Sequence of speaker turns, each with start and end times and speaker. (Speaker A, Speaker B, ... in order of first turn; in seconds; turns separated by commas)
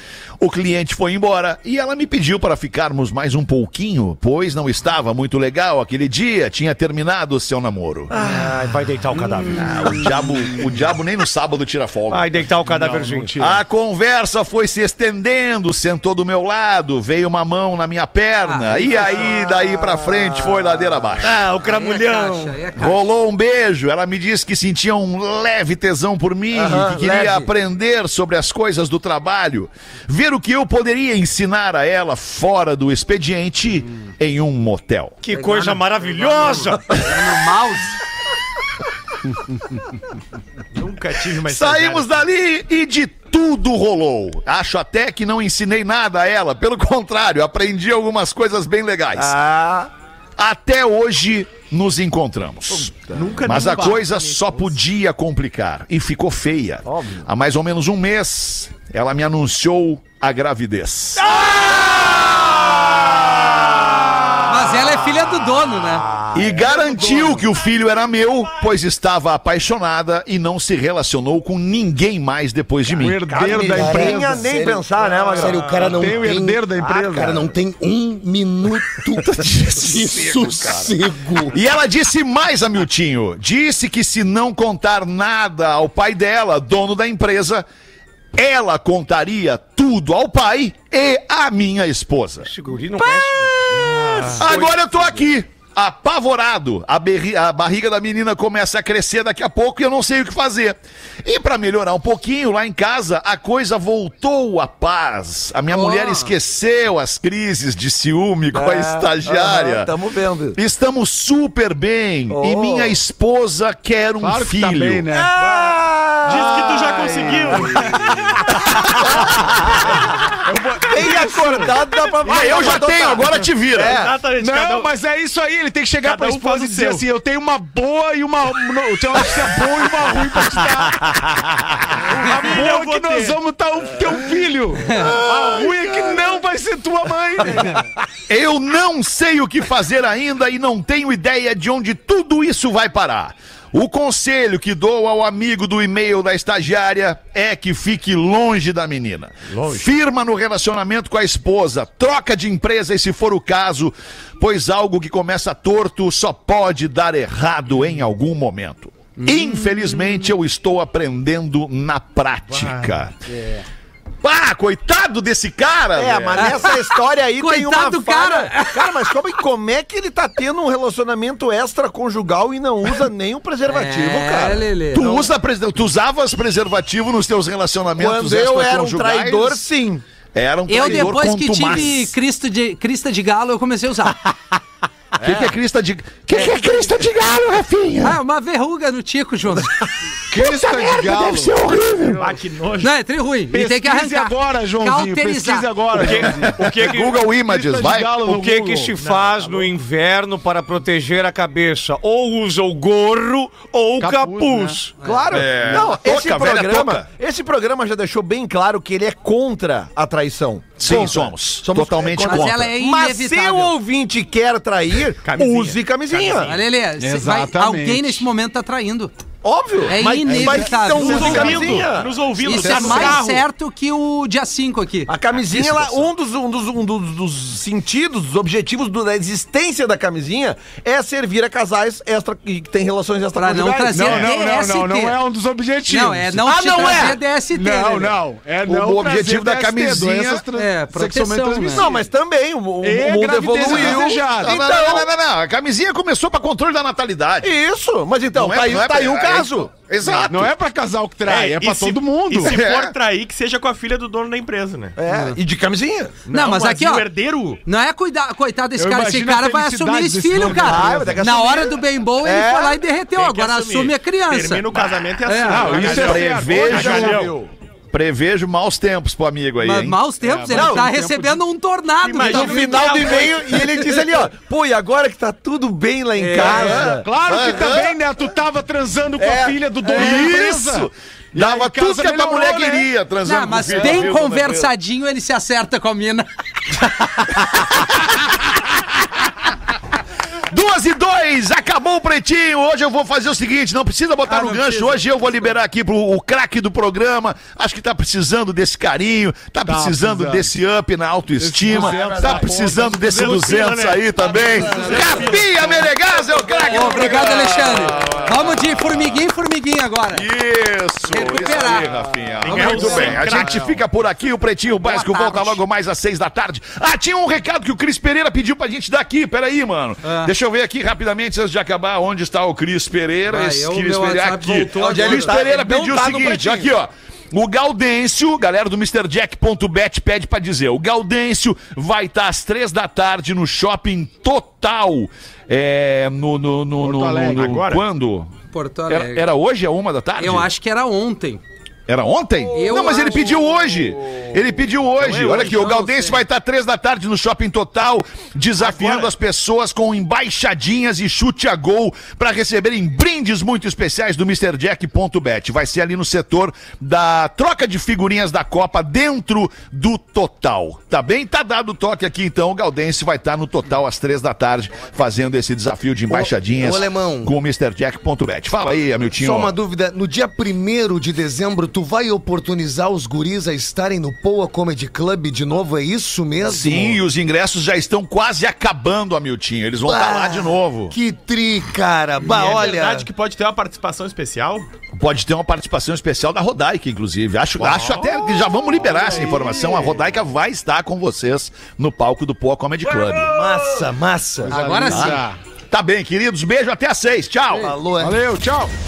Speaker A: 0.4-8.3, Speaker B: 8.1-9.6, Speaker A: 9.5-12.3, Speaker B: 12.1-13.4, Speaker C: 12.7-13.6, Speaker A: 13.4-21.4, Speaker D: 18.4-19.2, Speaker E: 19.1-21.2, Speaker B: 21.2-22.6, Speaker F: 21.3-22.2, Speaker D: 21.5-23.1, Speaker A: 22.7-35.2, Speaker E: 26.5-27.5, Speaker B: 35.2-37.0, Speaker D: 35.3-38.0, Speaker F: 36.1-36.8, Speaker G: 40.7-42.2, Speaker A: 41.5-49.4, Speaker E: 49.1-49.9, Speaker A: 50.4-61.4, Speaker E: 52.7-53.7, Speaker G: 53.1-54.6, Speaker E: 56.8-57.3, Speaker E: 61.4-61.8, Speaker D: 64.4-66.1, Speaker F: 66.3-66.6, Speaker A: 66.3-73.5, Speaker G: 66.7-67.1, Speaker C: 73.0-74.4, Speaker E: 73.3-75.9, Speaker F: 73.4-81.5, Speaker G: 75.3-76.1, Speaker C: 75.9-77.5, Speaker E: 76.8-77.4, Speaker A: 79.1-80.9, Speaker A: 81.5-87.6, Speaker A: 88.3-92.5, Speaker B: 92.4-95.2, Speaker F: 93.8-94.5, Speaker A: 94.3-109.9, Speaker D: 105.7-106.3, Speaker E: 108.5-110.6, Speaker A: 110.5-115.1, Speaker E: 112.3-113.0, Speaker C: 114.2-115.5, Speaker E: 115.1-116.5, Speaker C: 116.2-118.5, Speaker G: 116.2-118.2, Speaker E: 119.0-119.4, Speaker C: 120.4-123.1, Speaker E: 120.8-124.1, Speaker A: 122.3-124.0, Speaker G: 123.7-124.9, Speaker C: 124.3-131.1, Speaker G: 126.0-127.0, Speaker C: 131.9-137.8, Speaker G: 132.0-133.4, Speaker A: 138.3-163.2, Speaker D: 159.2-160.3, Speaker A: 164.2-166.7, Speaker E: 165.9-174.7, Speaker D: 166.4-169.1, Speaker D: 173.7-175.2, Speaker A: 174.9-179.6, Speaker E: 177.9-180.0, Speaker A: 180.3-182.1, Speaker D: 180.7-184.2, Speaker A: 185.2-188.2, Speaker D: 188.0-189.8, Speaker C: 190.3-191.6, Speaker A: 190.3-192.3, Speaker G: 192.1-192.9, Speaker D: 192.8-195.8, Speaker C: 193.5-196.8, Speaker B: 195.9-197.4, Speaker F: 196.6-197.0, Speaker A: 196.7-198.2, Speaker C: 197.4-198.9, Speaker B: 198.2-204.9, Speaker G: 199.0-199.7, Speaker C: 204.0-204.8, Speaker D: 205.0-205.4, Speaker E: 205.0-216.6, Speaker A: 205.3-207.1, Speaker B: 205.6-205.8, Speaker A: 210.8-212.7, Speaker D: 212.2-213.7, Speaker G: 215.2-216.6, Speaker D: 216.4-219.1, Speaker C: 217.0-218.3, Speaker E: 219.4-222.1, Speaker D: 219.8-221.9, Speaker G: 219.9-223.4, Speaker C: 220.2-221.9, Speaker D: 222.4-225.1, Speaker C: 222.5-223.3, Speaker E: 225.1-234.3, Speaker D: 233.3-235.2, Speaker C: 233.9-242.0, Speaker D: 235.9-238.2, Speaker E: 236.5-237.2, Speaker A: 238.6-240.4, Speaker D: 240.5-241.9, Speaker E: 241.6-245.1, Speaker C: 242.8-244.6, Speaker A: 243.6-247.5, Speaker E: 247.4-249.7, Speaker A: 248.3-250.6, Speaker C: 250.3-252.6, Speaker G: 251.2-255.0, Speaker E: 252.5-252.8, Speaker E: 255.0-256.2, Speaker D: 255.1-255.4, Speaker G: 256.2-257.6, Speaker D: 256.3-257.1, Speaker D: 257.6-266.0, Speaker C: 258.8-261.2, Speaker E: 260.4-262.8, Speaker G: 263.1-267.4, Speaker C: 265.4-267.4, Speaker A: 265.6-267.4, Speaker A: 267.9-270.1, Speaker D: 269.6-273.3, Speaker C: 270.2-271.4, Speaker E: 270.5-270.9, Speaker G: 272.0-273.7, Speaker E: 272.2-277.9, Speaker C: 276.3-282.9, Speaker A: 277.2-277.9, Speaker E: 279.2-280.0, Speaker A: 279.9-284.7, Speaker D: 279.9-280.3, Speaker D: 283.2-286.8, Speaker C: 283.7-284.1, Speaker A: 290.5-309.2, Speaker D: 294.2-295.0, Speaker C: 299.6-300.5, Speaker C: 301.4-303.6, Speaker G: 303.1-305.9, Speaker D: 306.7-310.3, Speaker A: 310.1-338.3, Speaker D: 311.1-311.9, Speaker G: 312.4-313.8, Speaker D: 312.4-313.4, Speaker D: 314.8-315.6, Speaker D: 320.0-320.3, Speaker D: 323.3-325.4, Speaker E: 324.8-326.7, Speaker C: 336.8-337.6, Speaker G: 337.3-337.8, Speaker D: 338.5-339.3, Speaker A: 338.9-340.5, Speaker D: 340.2-341.4, Speaker A: 341.9-369.5, Speaker D: 342.5-343.4, Speaker G: 345.0-345.7, Speaker D: 345.3-346.2, Speaker G: 348.6-349.1, Speaker F: 366.1-367.3, Speaker F: 369.1-377.0, Speaker A: 376.4-380.9, Speaker F: 379.8-383.1, Speaker G: 382.2-384.7, Speaker A: 384.9-393.4, Speaker G: 387.6-388.2, Speaker C: 388.9-390.0, Speaker F: 393.2-394.6, Speaker C: 394.4-395.4, Speaker D: 394.4-395.2, Speaker A: 394.9-397.8, Speaker F: 397.6-398.2, Speaker C: 397.9-398.7